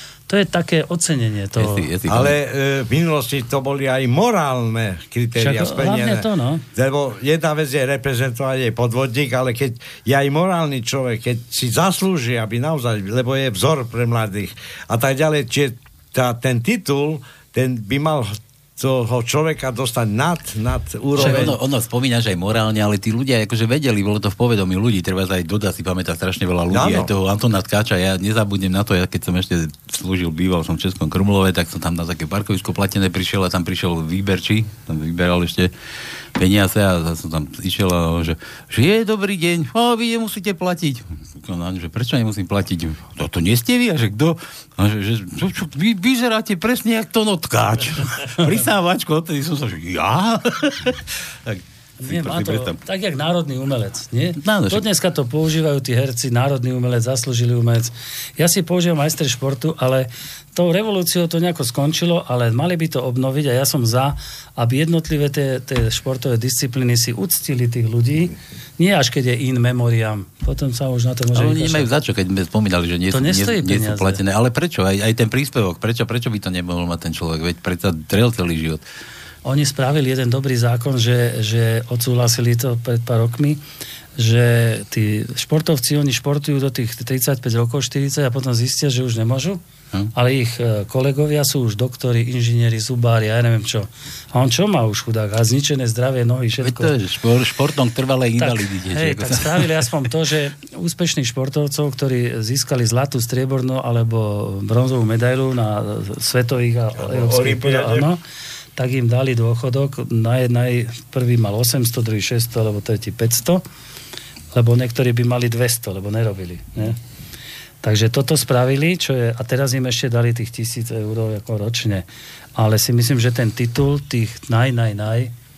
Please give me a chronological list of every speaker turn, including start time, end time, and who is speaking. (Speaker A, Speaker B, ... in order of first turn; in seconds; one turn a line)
Speaker A: 0.3-1.9
Speaker B: 1.6-2.4
Speaker C: 2.0-21.6
Speaker A: 5.4-6.7
Speaker B: 21.2-35.7
Speaker A: 21.2-21.5
Speaker C: 26.7-27.1
Speaker B: 36.4-52.8
Speaker A: 52.0-71.9
Speaker B: 54.4-54.9
Speaker B: 71.3-78.8
Speaker A: 73.1-74.2
Speaker A: 79.5-83.6
Speaker A: 84.2-89.6
Speaker A: 90.1-96.9
Speaker B: 96.6-99.8
Speaker A: 98.4-108.2
Speaker C: 107.0-108.1
Speaker A: 108.8-113.6
Speaker A: 114.5-117.0
Speaker A: 117.8-125.3